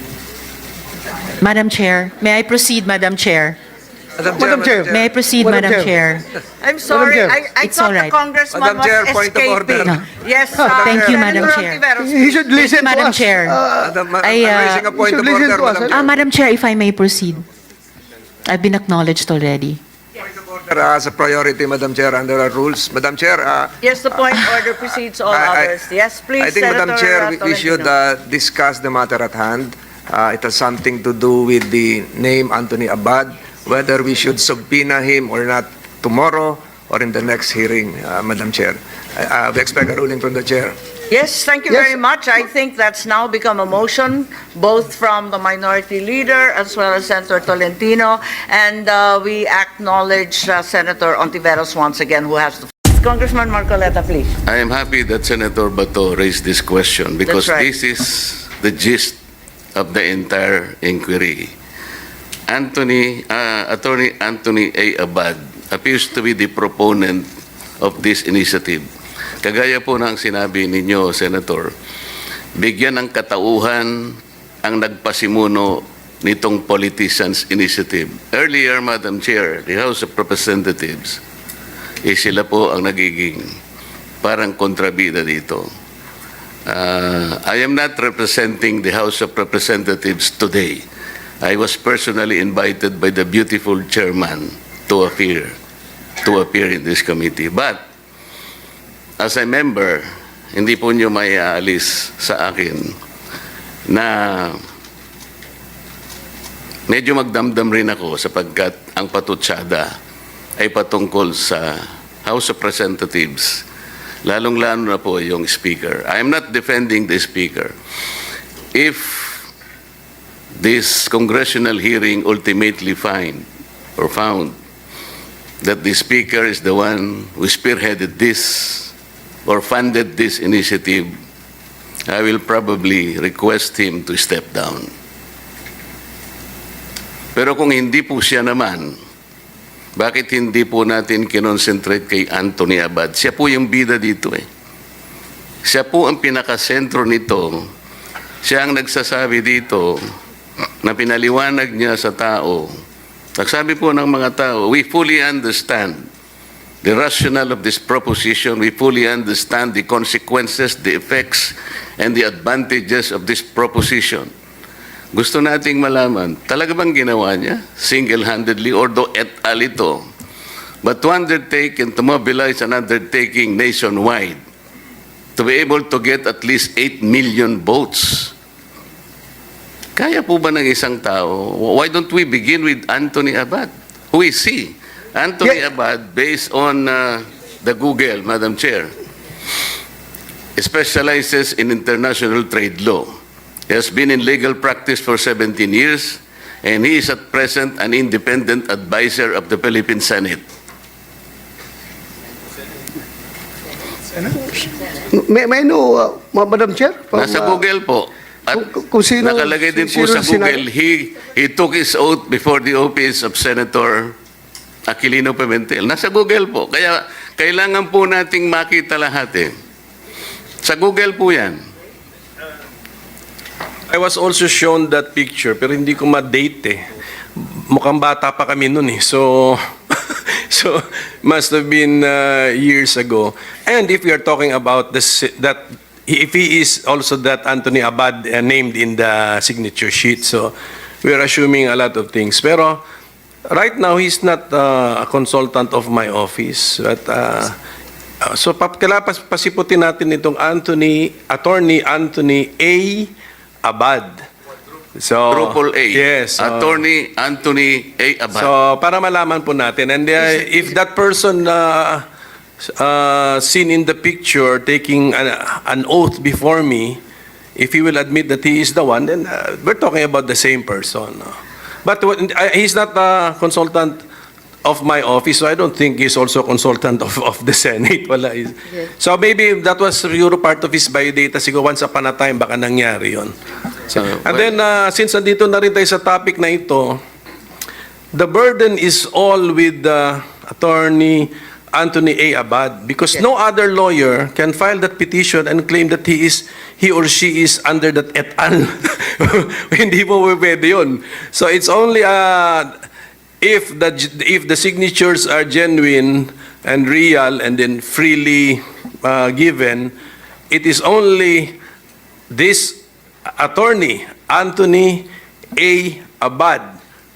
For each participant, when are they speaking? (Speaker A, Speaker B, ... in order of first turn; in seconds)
Speaker A: 1.4-3.6, 4.9-6.2, 7.6-8.1, 10.9-11.8, 12.7-13.6, 14.2-14.7, 15.9-17.4, 18.5-19.8
Speaker B: 4.2-5.1, 8.5-9.9, 10.8-11.2, 13.8-16.2, 20.4-24.4, 25.3-25.8, 26.4-40.8
Speaker C: 4.3-6.1, 6.8-7.5, 10.5-14.0, 14.7-16.0, 204.2-207.6, 208.5-210.6
Speaker D: 6.6-12.7, 23.8-27.9, 41.1-54.3, 57.2-57.7
Speaker E: 54.5-59.2, 59.8-61.5, 62.5-67.3, 67.8-68.8, 69.4-71.7, 72.6-81.2, 82.1-83.5, 84.2-85.7, 86.7-90.8, 91.4-95.5, 96.2-97.8, 99.2-100.0, 100.5-102.9, 103.9-104.6, 106.9-109.9, 110.6-113.6, 114.3-117.7, 118.8-119.5, 120.6-123.5, 124.0-124.5, 125.6-128.9, 129.5-131.1, 132.1-134.9, 137.4-138.9, 140.0-144.4, 145.7-147.6, 148.4-150.0, 150.8-152.7, 153.4-156.1, 156.8-164.3, 165.1-170.0, 170.8-174.4, 175.4-178.3, 180.0-188.9, 190.6-193.1, 193.7-200.4, 207.1-214.1, 214.9-219.5, 220.6-221.6, 255.3-258.5, 284.0-284.5
Speaker F: 223.9-226.8, 227.7-242.8, 243.5-247.5, 248.2-253.1, 253.6-254.2, 255.0-256.6, 258.4-262.1, 262.8-267.0, 267.6-271.3, 271.9-274.0, 274.6-283.3, 284.4-287.0, 288.1-302.7, 303.4-309.9, 310.5-311.6, 312.3-312.8, 313.4-316.7